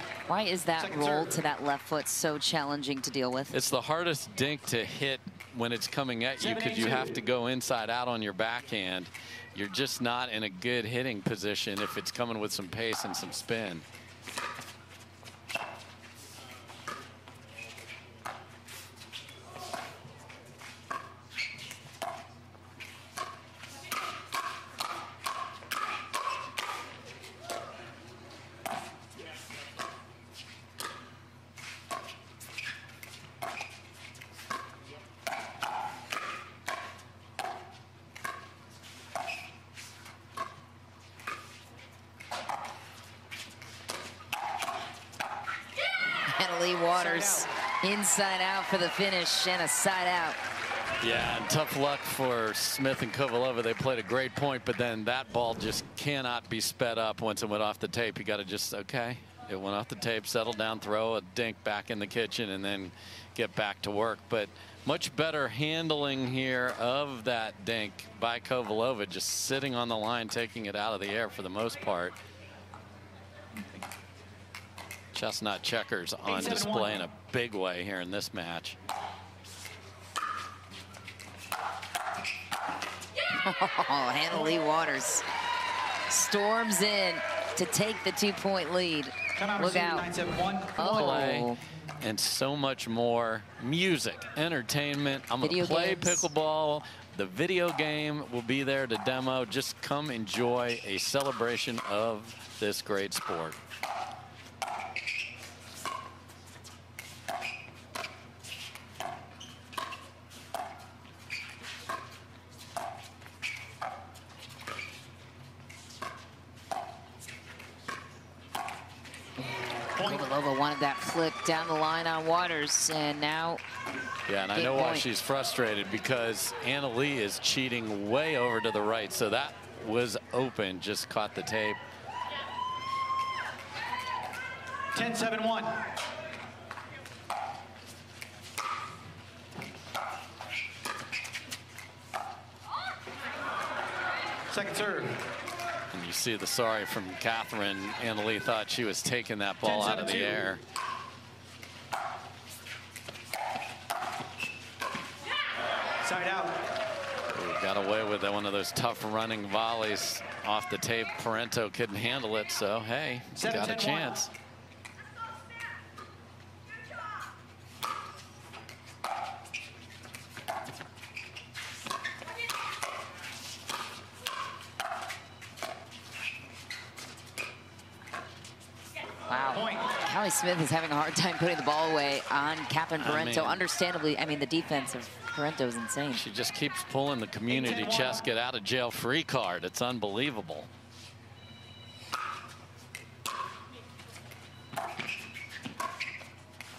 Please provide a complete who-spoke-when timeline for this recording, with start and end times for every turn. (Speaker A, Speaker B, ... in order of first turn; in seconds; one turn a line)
Speaker A: 0.3-3.5
Speaker B: 0.8-1.4
Speaker C: 3.5-13.8
Speaker B: 6.4-7.2
Speaker A: 46.2-50.4
Speaker B: 46.9-47.5
Speaker C: 51.0-72.2
Speaker C: 75.1-78.8
Speaker B: 76.2-77.0
Speaker A: 83.4-85.2
Speaker B: 84.3-84.6
Speaker A: 86.1-90.1
Speaker B: 89.3-91.0
Speaker A: 90.8-91.6
Speaker C: 90.8-103.6
Speaker A: 95.4-96.3
Speaker B: 120.0-120.3
Speaker A: 120.0-123.6
Speaker C: 124.3-131.8
Speaker A: 124.5-125.0
Speaker B: 134.9-135.8
Speaker B: 144.5-145.2
Speaker C: 145.9-150.6
Speaker B: 149.6-150.4
Speaker B: 156.0-156.7
Speaker C: 157.3-164.3
Speaker B: 163.3-164.2
Speaker A: 179.3-186.2
Speaker B: 179.5-179.9
Speaker C: 183.0-183.6
Speaker C: 186.1-190.7
Speaker B: 187.5-188.2